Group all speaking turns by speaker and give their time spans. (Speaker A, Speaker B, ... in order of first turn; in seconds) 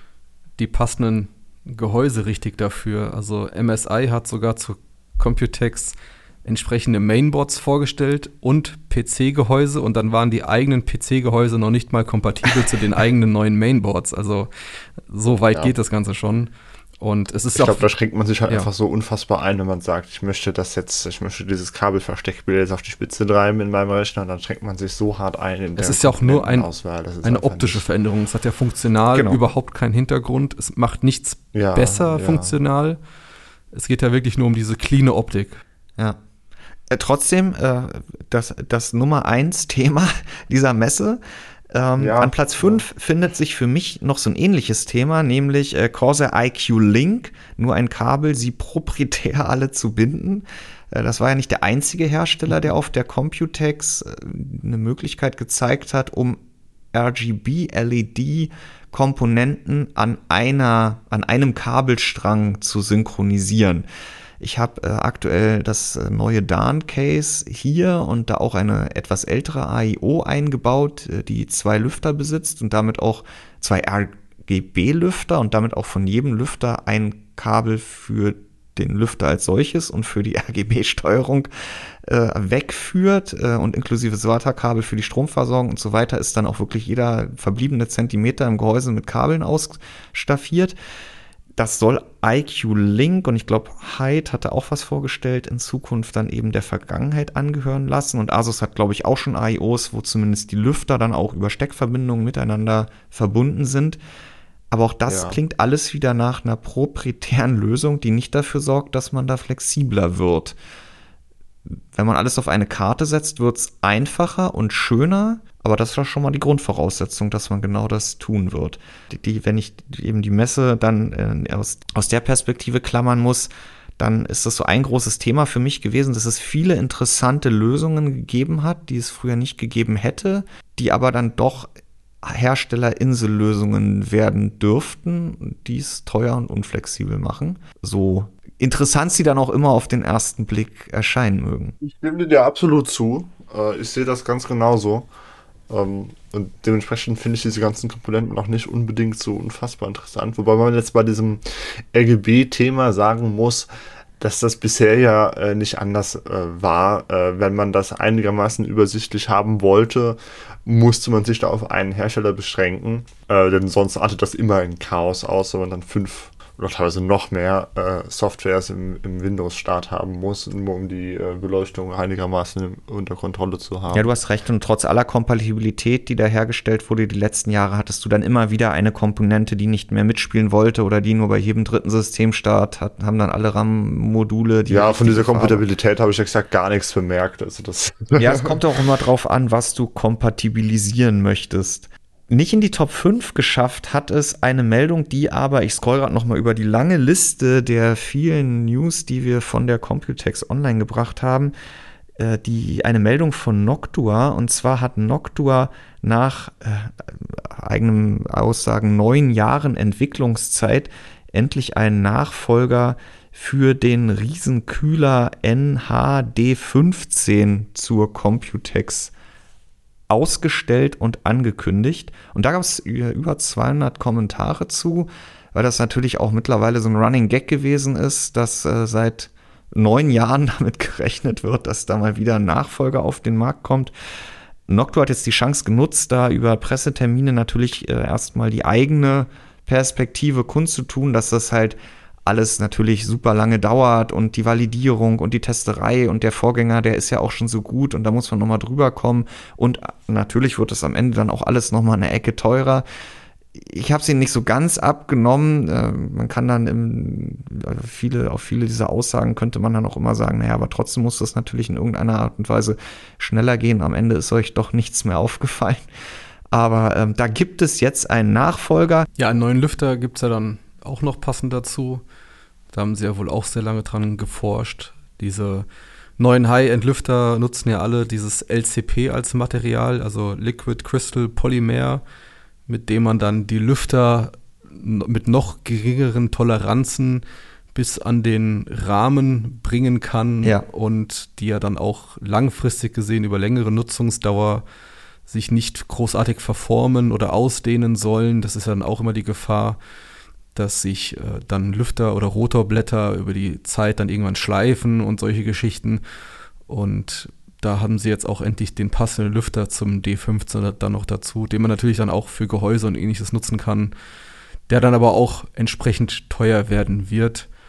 Speaker A: 0.6-14.5, 15.1-17.9, 25.8-26.7, 27.2-33.0, 33.7-35.6, 269.2-272.0, 272.7-275.7, 276.2-282.0, 282.7-294.6, 295.3-299.8, 300.5-306.0, 306.7-313.9, 314.7-317.5
Speaker B: 17.6-27.9, 31.5-32.5, 42.0-42.8, 105.1-105.4, 141.8-145.1, 145.7-153.7, 154.2-174.0, 184.7-188.5
Speaker C: 29.1-29.4, 36.9-41.2, 41.7-56.4, 56.9-63.9, 64.4-81.5, 82.0-90.8, 91.6-104.0, 104.7-110.6, 111.9-131.7, 132.2-141.8, 173.9-185.6, 188.2-201.5, 202.2-219.1, 220.1-233.9, 234.7-252.8, 253.6-265.9, 266.5-269.1